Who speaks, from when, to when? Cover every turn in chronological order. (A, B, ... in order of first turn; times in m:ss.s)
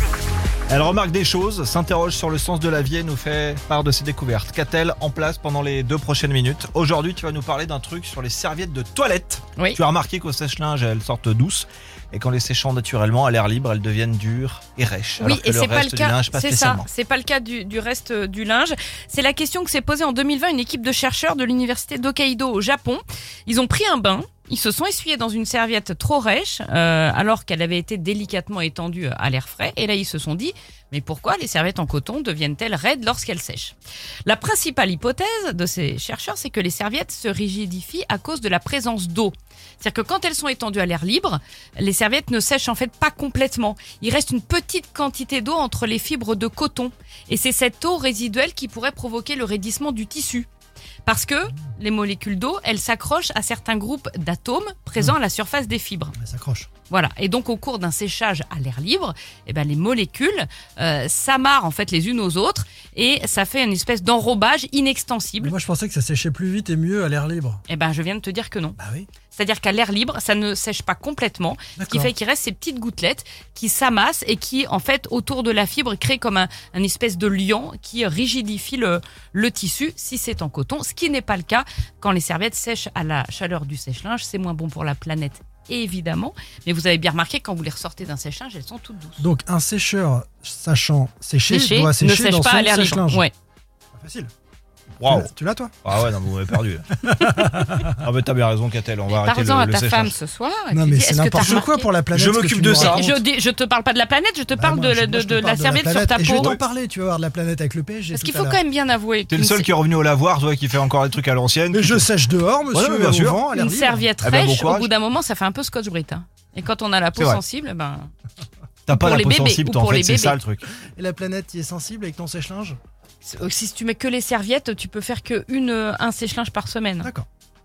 0:00.7-0:16.9 A
0:15.2-0:50.5 B
0:51.0-0:56.1 B
0:56.2-0:56.7 C
0:56.9-1:05.5 B
1:05.4-1:07.6 C
1:07.7-1:08.8 B
1:08.8-1:09.1 C
1:09.3-1:29.3 B
1:11.8-1:12.1 C
1:29.2-1:33.2 C
1:31.5-1:33.3 B
1:33.9-1:34.3 C
1:35.0-1:35.3 A
1:35.0-1:35.7 C
1:35.8-1:40.2 A
1:36.9-1:38.0 C
1:39.1-1:41.9 B
1:40.7-1:43.2 C
1:42.1-1:43.0 A
1:42.7-1:46.5 B
1:44.5-1:48.6 C
1:46.3-1:46.6 A
1:48.1-1:49.6 B
1:49.3-1:52.1 A
1:51.7-1:54.1 C
1:52.7-1:53.4 A
1:53.5-1:58.1 B
1:54.2-1:54.9 A
1:57.2-1:57.4 A
1:58.9-2:00.6 A
1:58.9-2:00.4 B
2:01.0-2:02.8 C
2:03.2-2:07.1 B